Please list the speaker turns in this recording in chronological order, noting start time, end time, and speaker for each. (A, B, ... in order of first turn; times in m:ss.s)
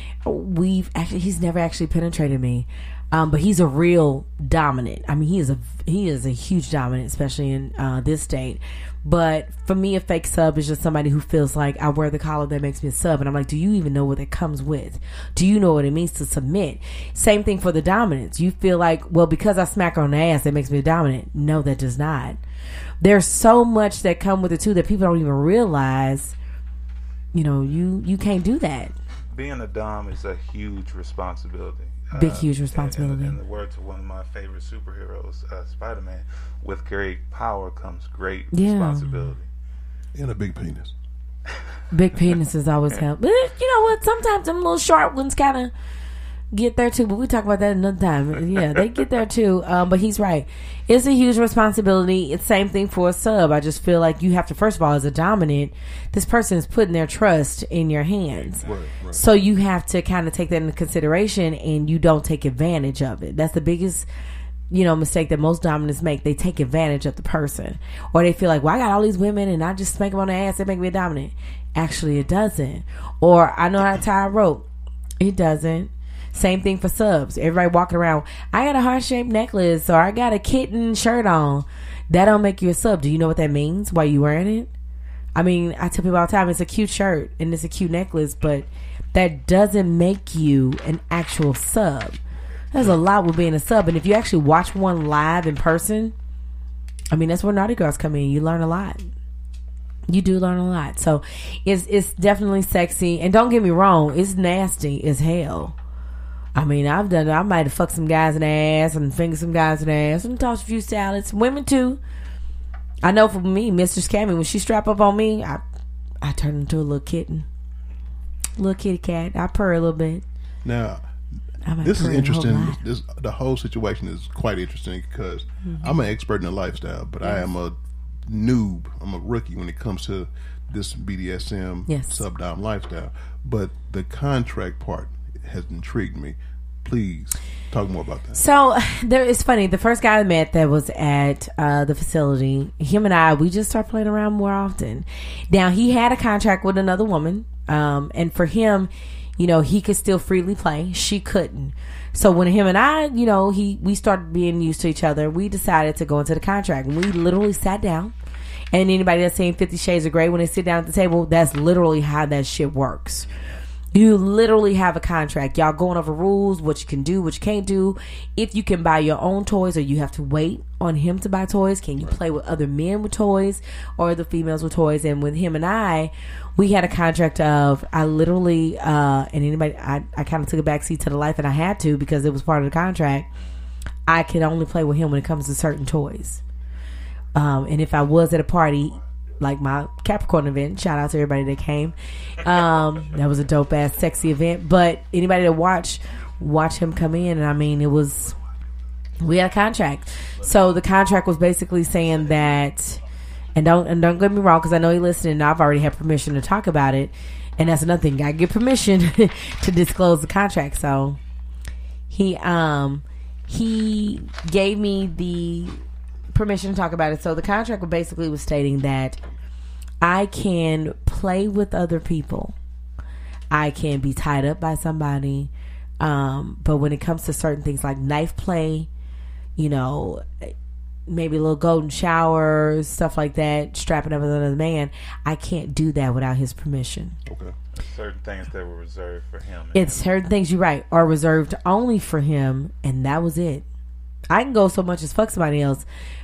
0:00.2-0:22.4 A
0:23.0-0:26.4 A
0:27.3-0:28.9 A
0:29.3-0:39.5 B
0:32.1-0:33.4 A
0:38.5-0:39.4 A
0:40.1-0:40.9 C
0:41.9-0:45.7 A
0:46.5-1:04.1 A
0:58.6-0:59.2 C
1:04.7-1:14.6 A
1:15.2-1:24.7 A
1:25.4-1:32.2 A
1:32.7-1:36.1 A
1:37.1-1:39.0 A
1:40.1-1:45.7 A
1:46.5-1:52.0 A
1:53.0-1:55.6 A
1:56.2-1:57.4 A
1:58.6-2:00.2 A
2:00.6-2:01.0 C
2:01.6-2:02.8 A
2:01.8-2:18.4 C
2:05.6-2:06.0 A
2:11.9-2:12.2 A
2:18.4-2:38.1 A
2:38.7-2:43.3 A
2:43.9-3:03.3 A
3:04.1-3:06.4 A
3:07.4-3:18.4 A
3:19.2-3:23.0 A
3:23.5-3:31.2 A
3:32.1-3:35.8 A
3:36.3-3:39.2 A
3:40.0-3:42.5 A
3:43.5-3:45.5 A
3:46.0-3:48.9 A
3:49.6-3:50.5 A
3:51.1-3:57.2 A
3:57.2-3:57.5 C
3:57.7-4:00.0 B
3:59.7-4:03.6 A
4:04.3-4:05.8 A